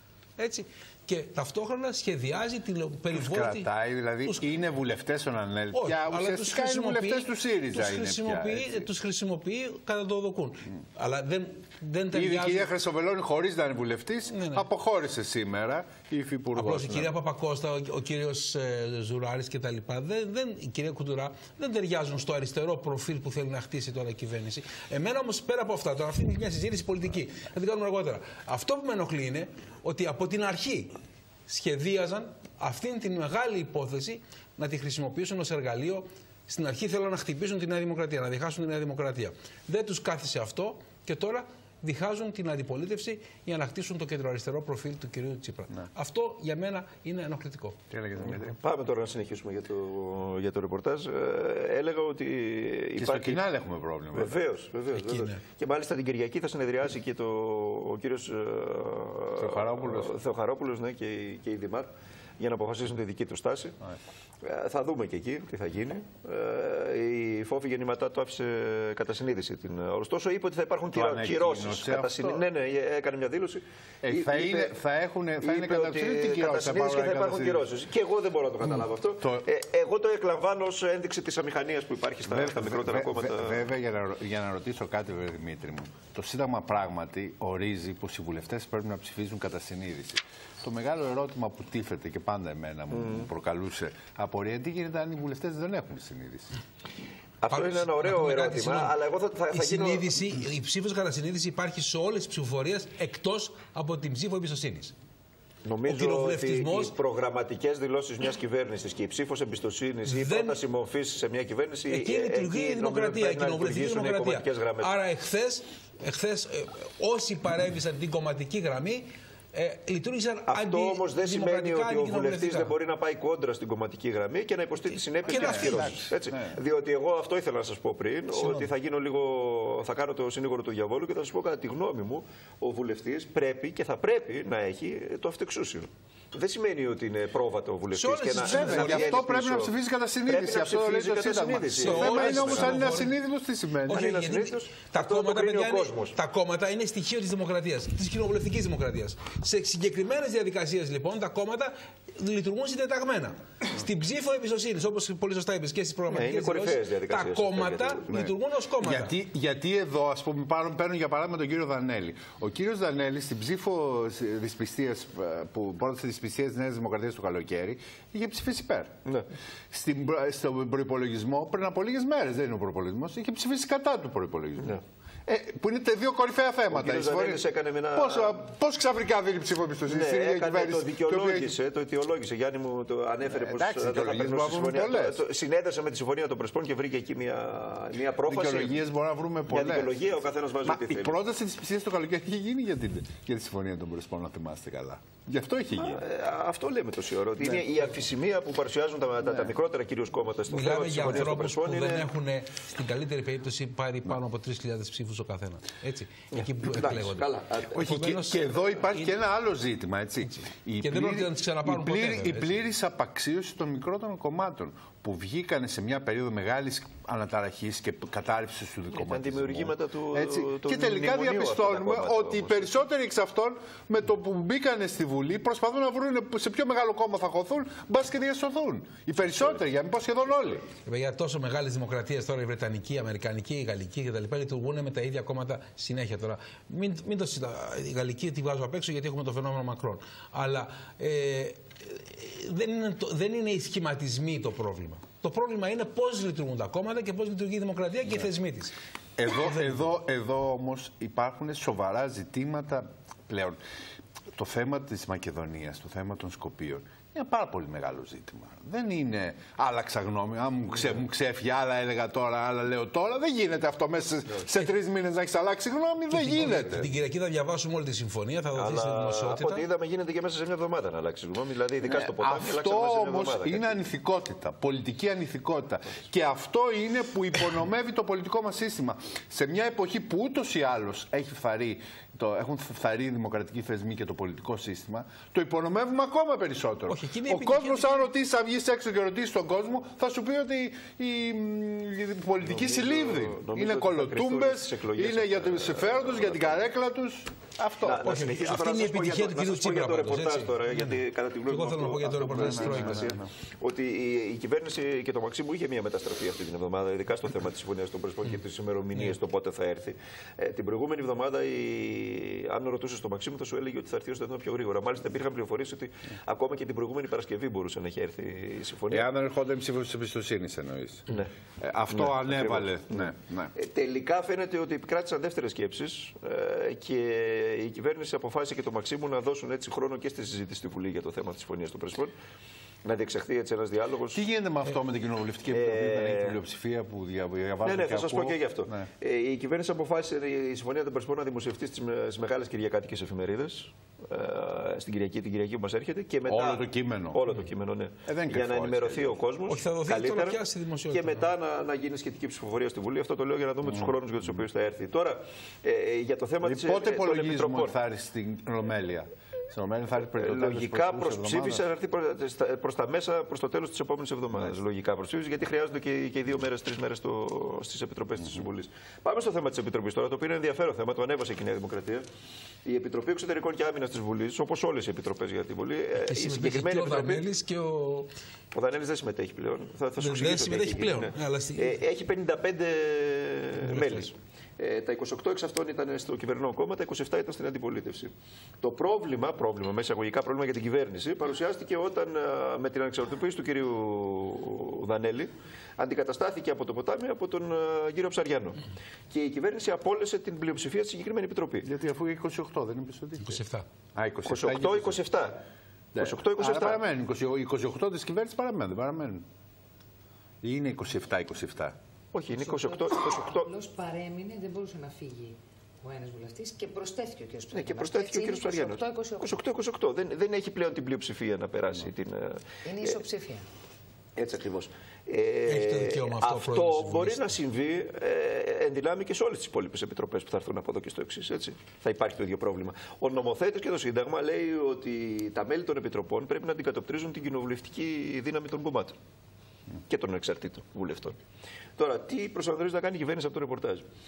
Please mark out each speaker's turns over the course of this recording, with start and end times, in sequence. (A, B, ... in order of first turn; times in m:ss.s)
0:00.4-0:03.7 A
0:03.1-0:08.9 B
0:04.2-0:04.5 A
0:05.7-0:12.7 A
0:12.1-0:17.1 B
0:14.3-0:14.6 A
0:16.5-0:30.9 A
0:31.5-0:47.8 A
0:47.9-0:48.5 B
0:48.6-0:53.4 C
0:53.0-0:54.4 B
0:54.1-1:01.9 C
0:54.9-0:55.4 A
0:59.4-1:00.1 B
1:02.4-1:03.8 C
1:04.4-1:14.7 C
1:10.9-1:12.4 B
1:14.0-1:17.7 B
1:15.4-1:23.7 C
1:22.2-1:36.5 B
1:32.9-1:33.3 C
1:37.4-1:40.2 C
1:37.5-1:38.9 A
1:39.5-1:44.9 A
1:45.6-1:54.9 C
1:45.8-1:46.9 A
1:50.1-1:50.6 A
1:51.9-2:02.7 A
2:00.5-2:19.7 C
2:05.2-2:06.1 A
2:05.3-2:06.5 B
2:08.3-2:08.7 A
2:17.9-2:19.2 A
2:18.4-2:24.1 B
2:20.2-2:23.0 C
2:21.8-2:23.1 A
2:23.9-2:39.1 A
2:23.9-2:26.2 C
2:36.1-2:38.1 C
2:38.1-2:49.0 B
2:49.7-3:01.5 B
2:56.7-2:58.4 C
2:59.9-3:08.8 C
3:03.3-3:05.2 B
3:08.3-3:10.0 B
3:09.5-3:11.2 C
3:10.6-3:16.0 B
3:15.8-3:22.1 C
3:20.5-3:29.1 A
3:26.3-3:27.8 C
3:27.8-3:50.7 B
3:30.8-3:32.5 A
3:39.0-3:42.8 C
3:50.8-4:08.7 A
4:09.2-4:13.6 B
4:14.3-4:26.9 B
4:26.1-4:29.6 A
4:28.5-4:33.7 C
4:31.9-4:58.2 B
4:46.9-4:48.0 A
4:52.5-4:56.6 C
4:57.8-5:19.1 C
4:58.0-5:03.2 A
5:02.4-5:03.2 B
5:18.9-5:23.5 B
5:21.9-5:32.1 C
5:32.8-5:34.2 C
5:34.1-5:38.9 B
5:35.5-5:36.4 C
5:37.6-5:50.4 C
5:46.3-5:47.2 B
5:48.0-5:49.1 B
5:49.5-5:51.3 A
5:50.9-5:57.8 C
5:56.4-6:01.6 B
6:00.2-6:12.0 C
6:12.6-6:17.2 C
6:16.0-6:18.1 A
6:18.5-6:41.7 C
6:20.0-6:21.8 A
6:23.6-6:24.1 A
6:41.6-6:43.4 B
6:43.2-6:43.6 A
6:43.9-6:45.0 B
6:44.3-6:45.4 C
6:45.9-6:49.2 B
6:46.0-6:46.8 C
6:50.4-6:51.8 B
6:52.1-6:53.5 C
6:52.3-6:59.4 D
6:57.5-7:03.0 C
7:02.6-7:03.4 D
7:04.2-7:19.0 C
7:05.5-7:07.3 A
7:19.9-7:21.2 C
7:21.8-7:23.8 C